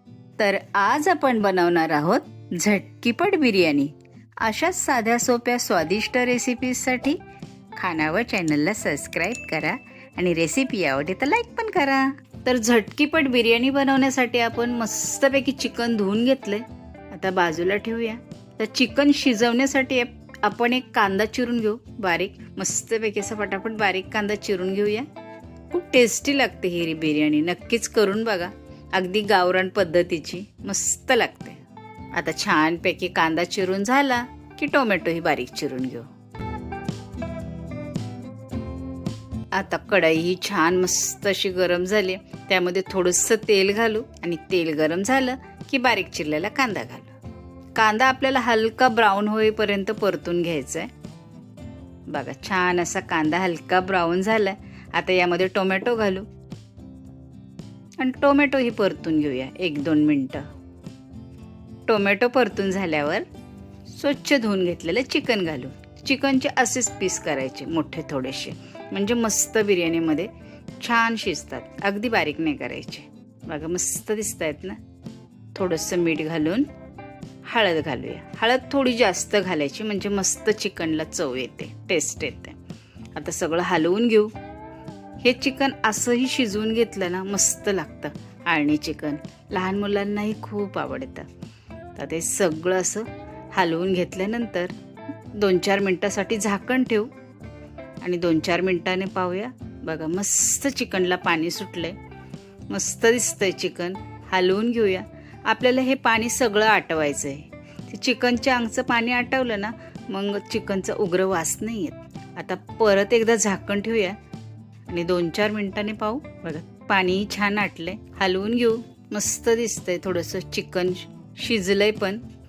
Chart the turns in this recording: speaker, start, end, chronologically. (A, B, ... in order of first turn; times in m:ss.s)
0:00.4-0:07.2 A
0:07.8-0:25.1 A
0:25.7-0:31.6 A
0:32.1-0:36.1 A
0:39.5-0:47.1 A
0:47.8-0:50.9 A
0:52.1-0:56.2 A
0:58.0-1:00.4 A
1:01.9-1:03.2 A
1:03.9-1:14.8 A
1:15.5-1:16.6 A
1:17.4-1:22.6 A
1:23.1-1:24.3 A
1:25.2-1:31.2 A
1:32.0-1:34.7 A
1:35.4-1:37.1 A
1:38.0-1:41.9 A
1:42.7-1:54.2 A
1:54.9-2:02.2 A